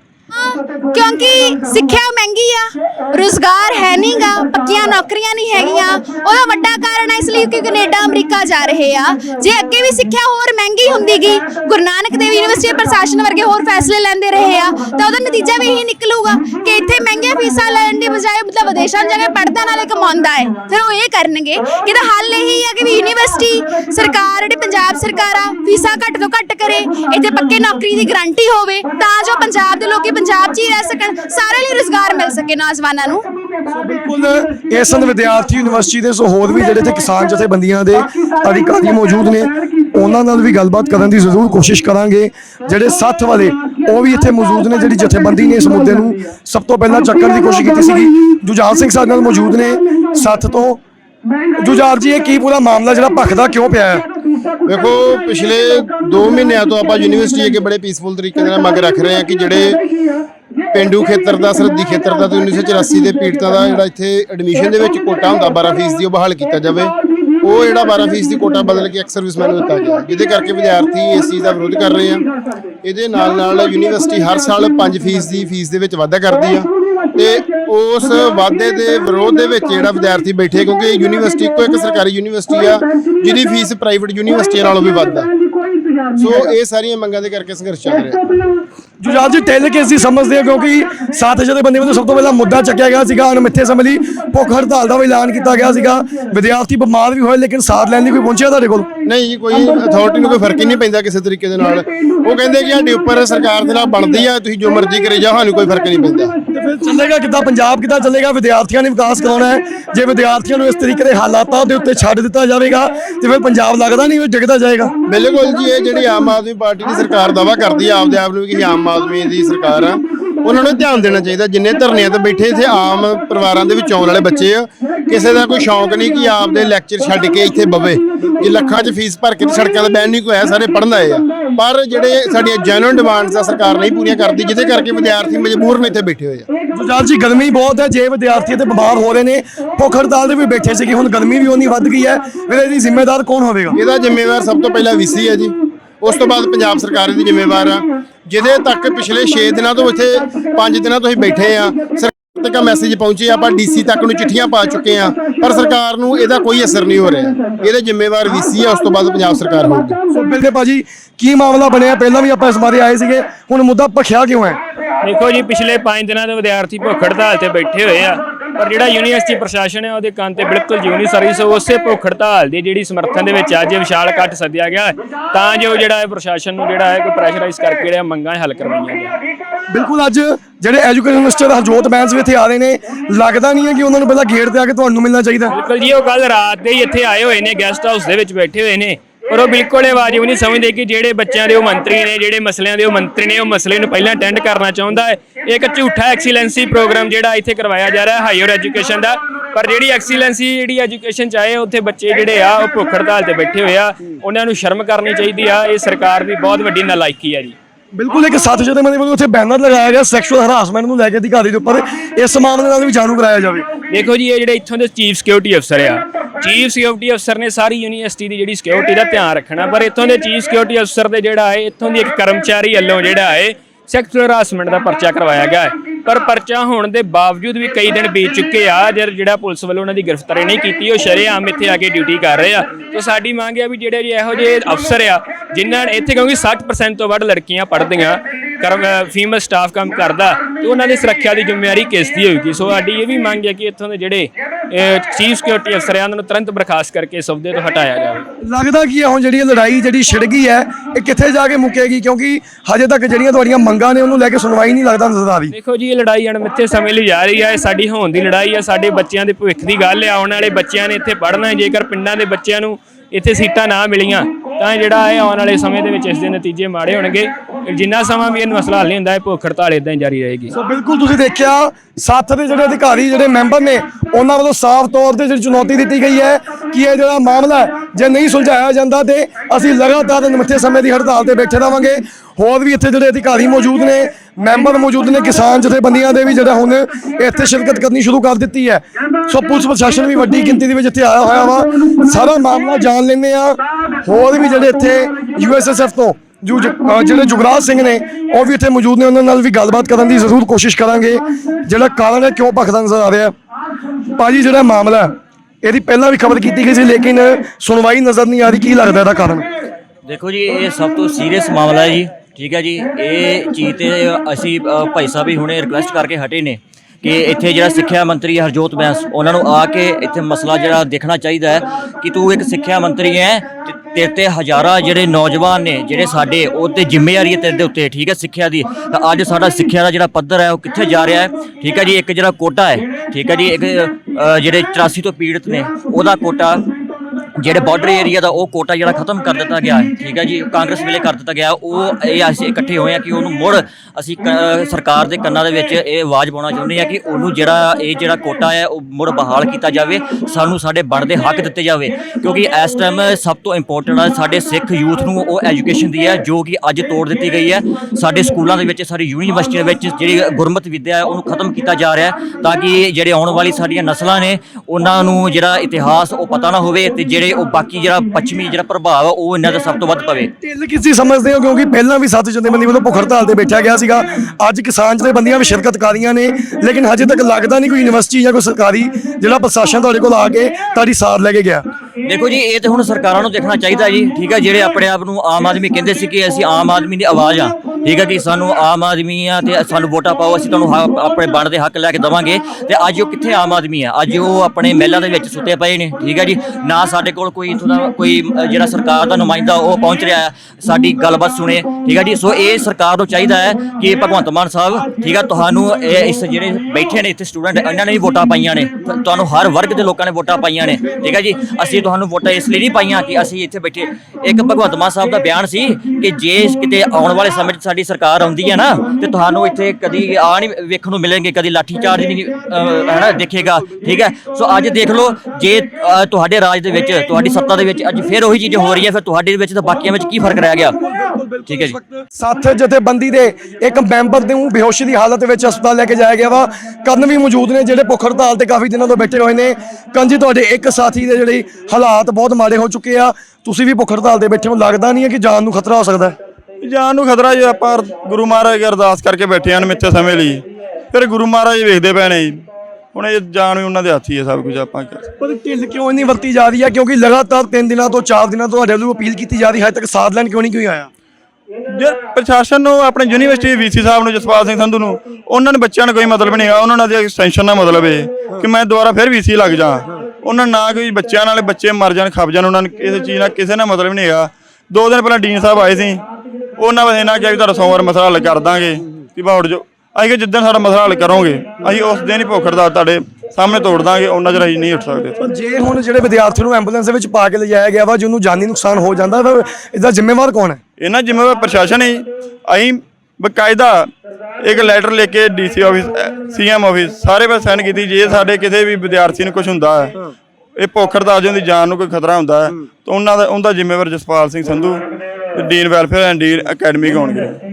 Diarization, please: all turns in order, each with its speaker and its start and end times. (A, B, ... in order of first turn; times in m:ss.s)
0:00.3-0:33.3 A
0:33.7-0:50.8 B
0:51.6-0:54.0 B
0:54.7-0:59.8 C
1:00.7-1:12.2 C
1:12.8-1:25.3 C
1:26.2-1:28.2 C
1:29.0-1:38.9 B
1:39.0-1:46.3 C
1:46.5-1:54.9 B
1:55.1-2:16.5 C
2:16.7-2:23.8 B
2:23.7-2:40.0 C
2:40.1-2:44.6 B
2:45.0-2:59.1 D
2:59.7-3:05.6 B
3:05.5-3:27.6 D
3:27.9-3:33.7 B
3:33.9-4:08.2 D
4:08.4-4:15.6 B
4:15.5-4:30.5 D
4:30.5-5:03.3 B
5:04.2-5:09.4 B
5:10.1-5:36.6 E
5:37.4-6:10.3 E
6:10.4-6:21.6 B
6:22.0-7:10.7 E
7:10.8-7:26.2 B
7:11.5-7:11.8 E
7:26.6-7:32.4 F
7:32.9-7:35.1 F
7:35.2-7:40.9 B
7:41.7-7:56.0 F
7:56.6-8:05.2 F
8:05.2-8:10.6 B
8:10.8-8:13.9 F
8:14.4-8:19.9 F
8:20.6-8:24.8 F
8:25.3-8:27.4 F